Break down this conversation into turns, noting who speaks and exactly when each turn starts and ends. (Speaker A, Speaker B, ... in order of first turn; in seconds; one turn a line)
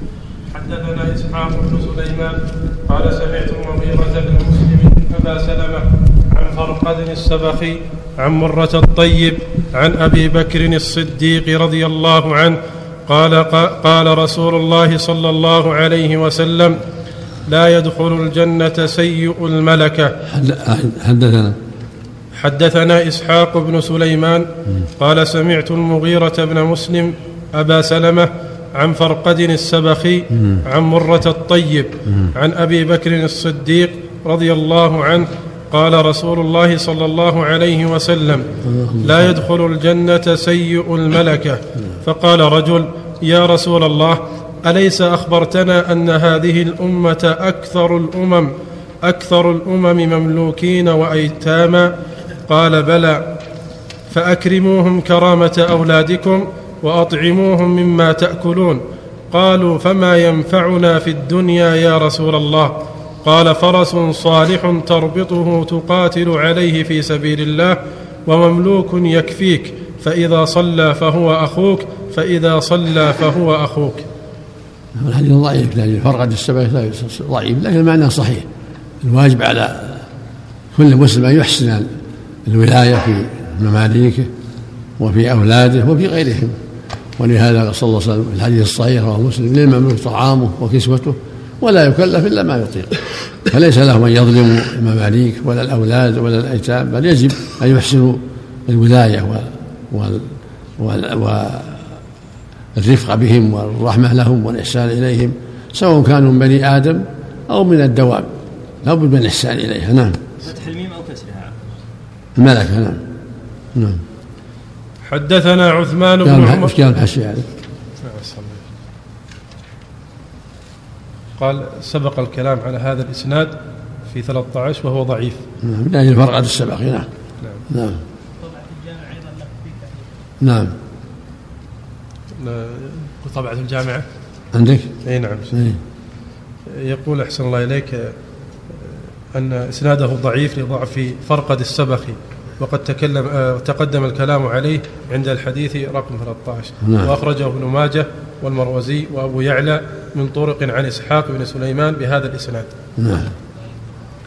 Speaker A: 0.5-16.8
Speaker A: 17.5-20.2
Speaker B: 20.3-21.6
Speaker A: 22.3-51.9
Speaker B: 38.6-39.3
Speaker A: 52.5-53.2
Speaker A: 54.1-74.0
Speaker B: 75.0-78.5
Speaker B: 79.0-80.0
Speaker B: 80.7-81.9
Speaker B: 82.4-84.3
Speaker B: 85.0-86.5
Speaker B: 87.2-93.0
Speaker B: 93.5-101.9
Speaker B: 102.7-108.3
Speaker B: 108.8-110.2
Speaker C: 110.5-111.5
Speaker B: 112.3-113.0
Speaker B: 113.7-114.0
Speaker A: 115.0-116.8
Speaker B: 116.2-117.5
Speaker A: 118.0-118.7
Speaker A: 121.4-123.5
Speaker A: 124.1-125.4
Speaker B: 125.6-127.1
Speaker B: 127.7-128.0
Speaker C: 128.5-129.8
Speaker B: 130.4-130.7
Speaker A: 132.3-134.0
Speaker B: 134.5-134.9
Speaker A: 135.0-135.6
Speaker B: 135.5-135.8
Speaker A: 136.7-138.1
Speaker A: 138.8-152.7
Speaker B: 146.8-147.1
Speaker B: 153.0-153.3